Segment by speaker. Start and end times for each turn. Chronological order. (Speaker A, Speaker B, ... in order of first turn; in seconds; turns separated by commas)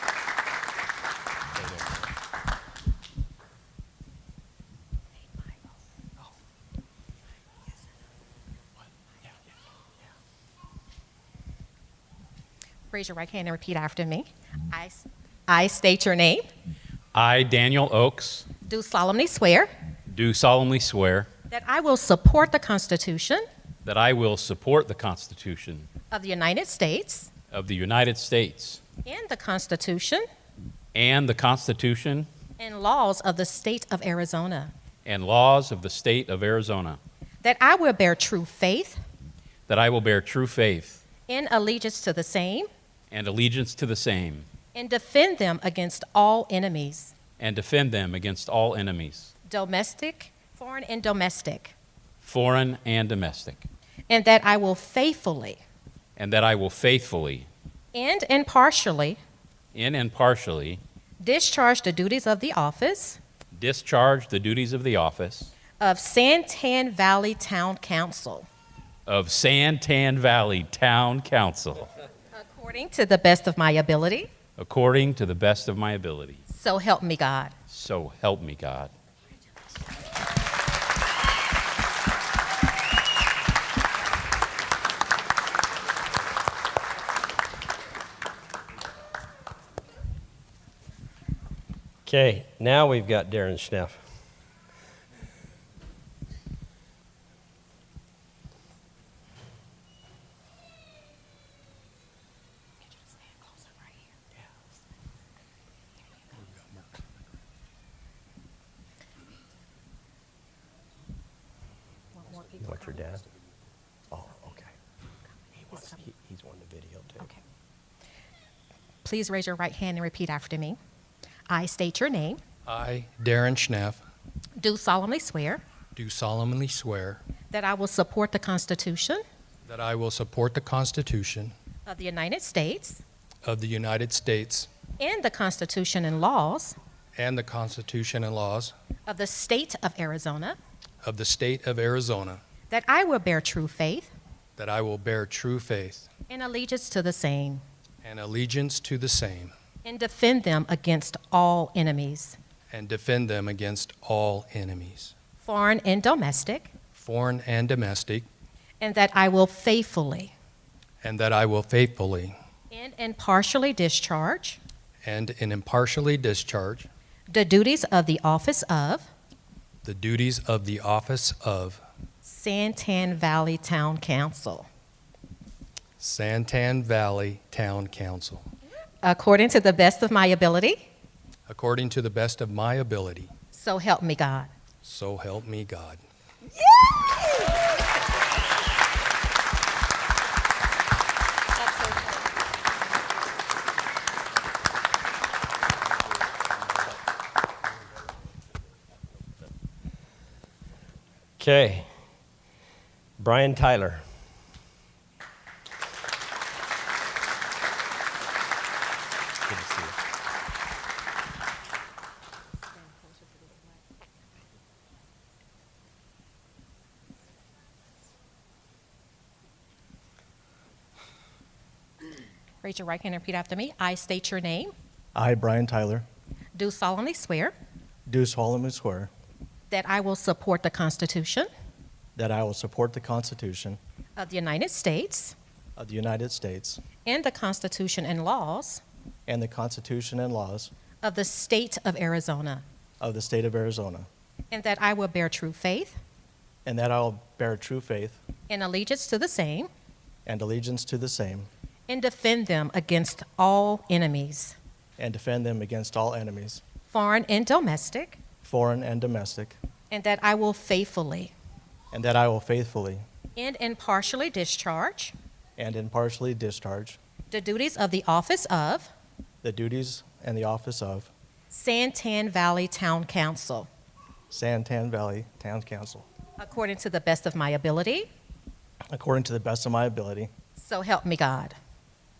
Speaker A: 1.6-1.9, Speaker B: 12.9-16.5, Speaker C: 17.1-18.5, Speaker B: 18.6-19.7, Speaker C: 20.1-21.3, Speaker B: 21.5-23.4, Speaker C: 23.8-25.9, Speaker B: 26.1-27.3, Speaker C: 27.5-28.8, Speaker B: 29.0-30.2, Speaker C: 30.9-32.3, Speaker B: 32.6-34.7, Speaker C: 35.0-37.0, Speaker B: 37.4-39.0, Speaker C: 39.7-41.0, Speaker B: 41.3-42.7, Speaker C: 43.1-44.5, Speaker B: 44.7-47.1, Speaker C: 47.4-49.3, Speaker B: 49.5-51.7, Speaker C: 52.2-53.6, Speaker B: 54.1-55.6, Speaker C: 56.1-57.5, Speaker B: 57.9-59.2, Speaker C: 59.7-60.8, Speaker B: 61.2-63.2, Speaker C: 63.5-65.5, Speaker B: 65.8-68.5, Speaker C: 69.1-71.9, Speaker B: 72.3-74.3, Speaker C: 74.6-76.4, Speaker B: 76.5-77.5, Speaker C: 77.7-78.9, Speaker A: 92.0-94.0, Speaker D: 106.6-107.0, Speaker B: 112.3-112.6, Speaker A: 112.6-113.2, Speaker A: 114.1-114.7, Speaker A: 115.5-117.3, Speaker B: 119.0-120.8, Speaker B: 121.5-122.4, Speaker D: 122.7-124.0, Speaker B: 124.6-125.6, Speaker D: 125.9-127.2, Speaker B: 127.5-129.2, Speaker D: 129.7-131.5, Speaker B: 131.8-133.0, Speaker D: 133.4-134.7, Speaker B: 135.0-136.8, Speaker D: 137.2-138.7, Speaker B: 139.1-140.6, Speaker D: 141.0-142.4, Speaker B: 142.7-144.1, Speaker D: 144.6-146.1, Speaker B: 146.3-147.6, Speaker D: 148.0-149.5, Speaker B: 149.8-152.4, Speaker D: 152.7-155.1, Speaker B: 155.4-156.7, Speaker D: 156.9-158.3, Speaker B: 158.8-160.3, Speaker D: 161.0-162.4, Speaker B: 162.7-164.6, Speaker D: 165.0-166.9, Speaker B: 167.3-169.1, Speaker D: 169.8-171.8, Speaker B: 172.2-174.7, Speaker D: 176.0-178.5, Speaker B: 179.0-180.8, Speaker D: 181.5-183.3, Speaker B: 183.5-184.5, Speaker D: 184.8-186.0, Speaker B: 191.8-192.2, Speaker A: 201.4-201.9, Speaker A: 203.2-204.0, Speaker A: 209.5-209.9, Speaker B: 222.6-224.7, Speaker E: 225.1-226.1, Speaker B: 226.5-227.5, Speaker E: 228.1-229.1, Speaker B: 229.7-231.5, Speaker E: 232.2-233.8, Speaker B: 234.2-235.3, Speaker E: 235.8-236.8, Speaker B: 237.0-238.8, Speaker E: 239.3-240.7, Speaker B: 241.0-242.6, Speaker E: 243.0-244.1, Speaker B: 244.5-246.0, Speaker E: 246.6-248.2, Speaker B: 248.5-249.7, Speaker E: 250.2-251.5, Speaker B: 251.9-254.6, Speaker E: 255.0-256.6, Speaker B: 256.9-258.2, Speaker E: 258.4-259.6, Speaker B: 259.9-261.3, Speaker E: 261.9-263.0, Speaker B: 263.4-265.1, Speaker E: 265.6-267.0, Speaker B: 267.3-268.9, Speaker E: 269.4-271.1, Speaker B: 271.5-273.7, Speaker E: 274.3-276.1, Speaker B: 276.4-278.1, Speaker E: 278.9-280.3, Speaker B: 280.6-281.6